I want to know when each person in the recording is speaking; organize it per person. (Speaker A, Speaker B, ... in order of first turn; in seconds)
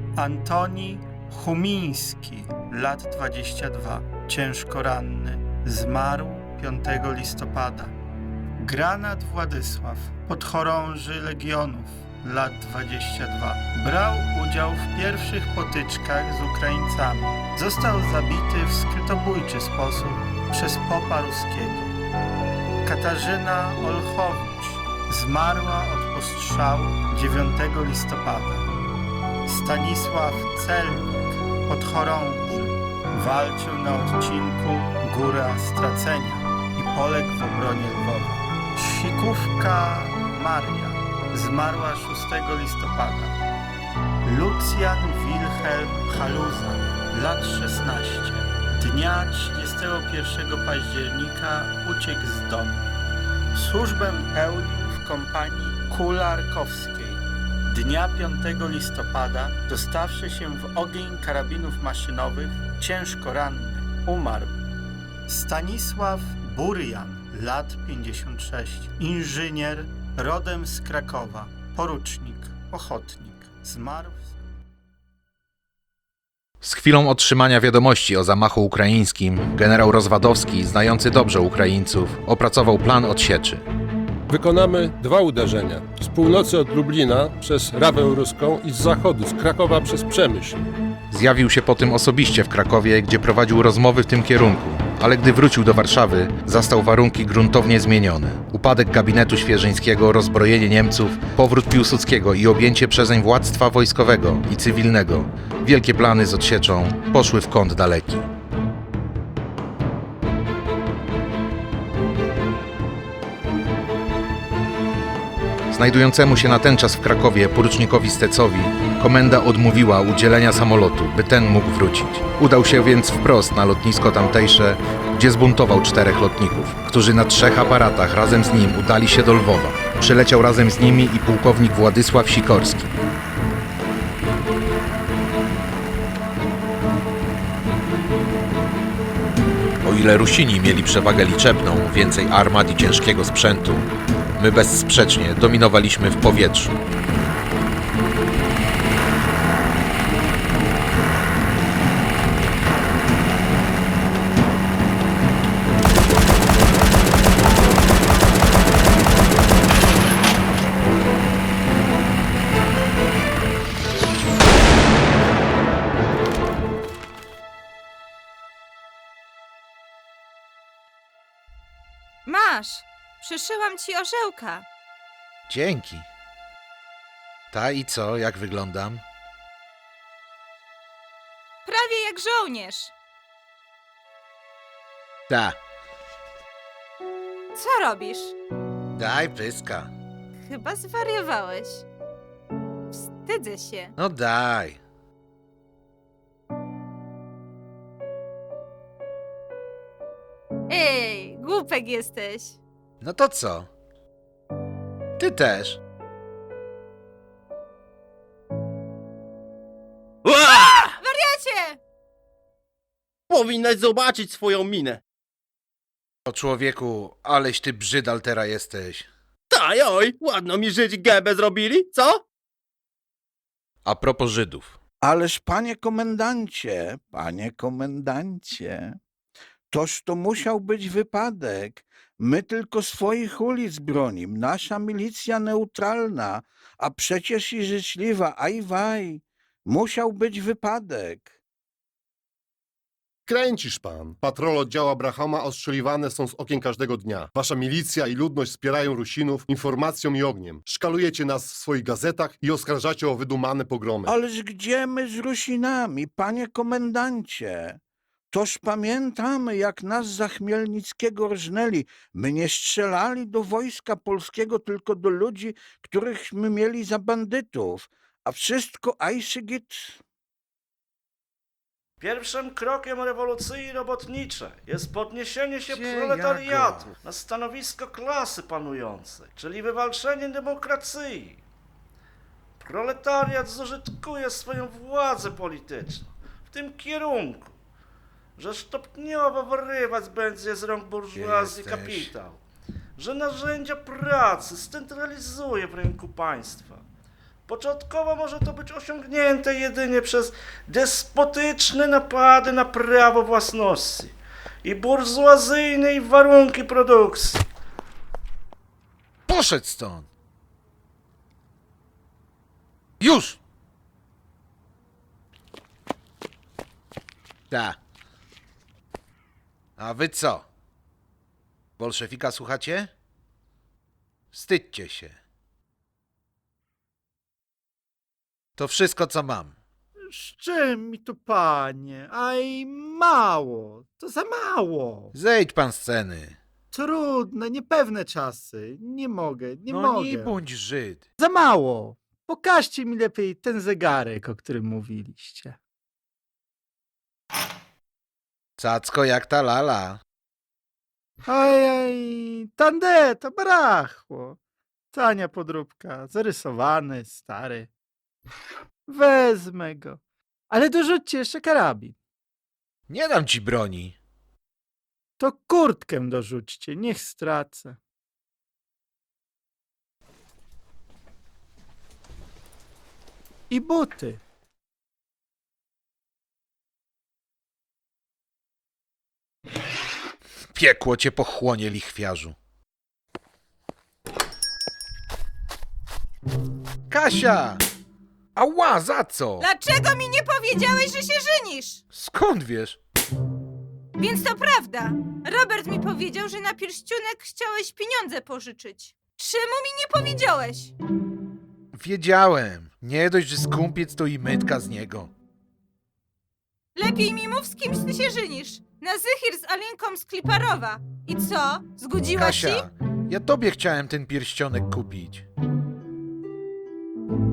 Speaker A: 0.1-7.9, 8.6-21.9, 22.8-28.7, 29.4-43.4, 44.2-52.8, 53.5-64.6, 65.3-74.3, 330.1-335.1, 336.7-340.4, 341.2-345.6, 351.3-354.4, 354.9-357.7, 358.9-361.9, 365.2-367.8, 373.5-374.2
Speaker B: 76.6-83.6, 91.1-108.3, 115.7-132.9, 139.8-146.7, 175.5-176.1, 177.5-179.0, 185.3-185.6, 188.9-189.9, 194.0-194.8, 203.0-203.7, 205.2-205.8, 216.3-219.1, 223.8-224.8, 275.6-276.9, 291.1-292.1, 309.3-310.1, 313.0-313.4, 317.5-317.8, 319.8-320.4, 321.8-322.9, 324.3-325.2, 328.6-329.5, 335.1-336.4, 339.7-341.0, 348.6-350.0, 362.9-363.9, 380.5-382.4, 386.9-387.6, 388.3-389.5, 391.9-392.8, 401.7-405.1, 412.1-415.2
Speaker C: 84.3-90.7
Speaker D: 172.2-174.7, 181.6-182.9, 187.5-188.3, 190.4-191.8, 192.9-193.9, 200.7-202.6, 210.4-211.8, 389.4-391.8, 394.0-400.7, 406.8-412.7
Speaker E: 213.3-215.0, 219.5-222.2
Speaker F: 225.0-229.0, 229.7-241.3, 254.1-257.8, 258.3-270.0
Speaker G: 243.3-254.1
Speaker H: 272.0-281.4, 282.6-287.6, 288.4-292.4, 293.0-296.8, 297.5-307.4